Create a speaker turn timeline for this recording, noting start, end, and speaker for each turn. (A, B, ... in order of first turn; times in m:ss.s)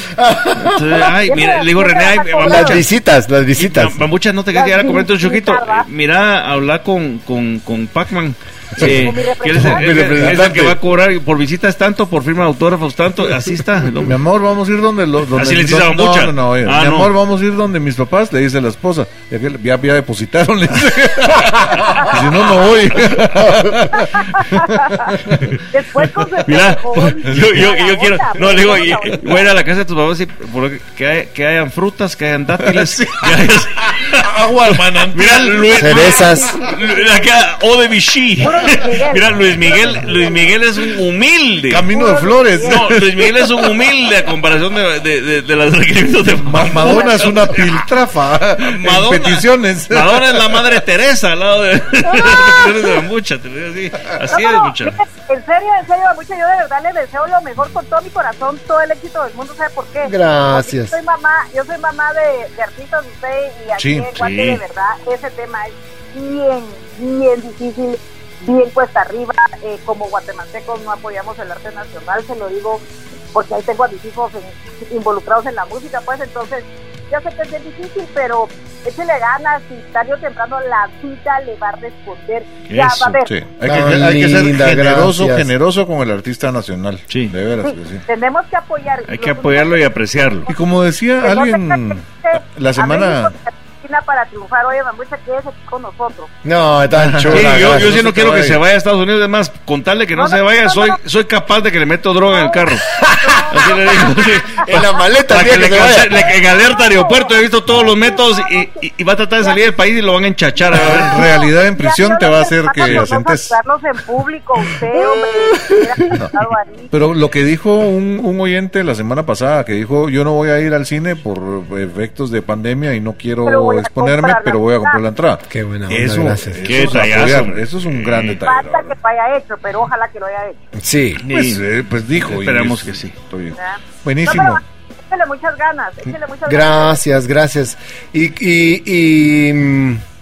0:00.2-0:00.8 A
0:00.6-0:02.8 B
0:01.0-0:02.8 C
0:02.4-0:04.0 A
0:03.6-0:14.2 B
0:04.5-0:05.9 C
0:08.8-0:10.8 A
0:08.8-0:10.1 C
0:10.0-0:10.4 D
0:14.0-0:26.3 D
0:15.3-0:17.1 B
0:24.4-0:25.0 C
0:25.7-0:29.5 C
0:26.4-0:41.9 B
0:27.2-0:27.8 D
0:32.7-0:33.3 D
0:33.9-0:36.1 D
0:35.7-0:36.6 A
0:36.6-0:37.0 C
0:38.4-0:40.6 C
0:41.7-0:43.7 D
0:41.9-0:43.0 C
0:42.6-0:47.8 B
0:46.4-0:50.8 D
0:46.8-0:47.5 C
0:48.6-0:55.0 B
0:54.3-1:23.3 C
1:00.0-1:01.0 A
1:03.8-1:04.1 D
1:04.1-1:04.6 B
1:22.7-1:23.2 B
1:23.2-1:28.0 D
1:23.6-1:25.5 A
1:27.1-1:27.4 B
1:27.6-1:29.8 C
1:29.1-1:30.5 B
1:30.5-1:33.3 D
1:31.2-1:36.3 C
1:36.4-1:37.9 A
1:36.9-1:38.6 D
1:37.3-1:42.9 B
1:40.1-1:41.0 C
1:42.3-1:45.0 C
1:43.0-1:43.5 A
1:43.5-1:51.2 B
1:44.6-1:46.3 A
1:46.2-1:48.8 C
1:50.7-1:53.6 D
1:51.1-1:56.9 C
1:56.1-1:56.3 D
1:56.9-2:08.9 D
2:03.4-2:05.0 C
2:05.5-2:07.0 A
2:06.6-2:08.4 B
2:08.4-2:10.6 C
2:10.8-2:11.2 A
2:11.2-2:11.6 B
2:11.3-2:14.6 D
2:12.2-2:13.1 B
2:13.6-2:17.0 C
2:16.4-2:20.0 A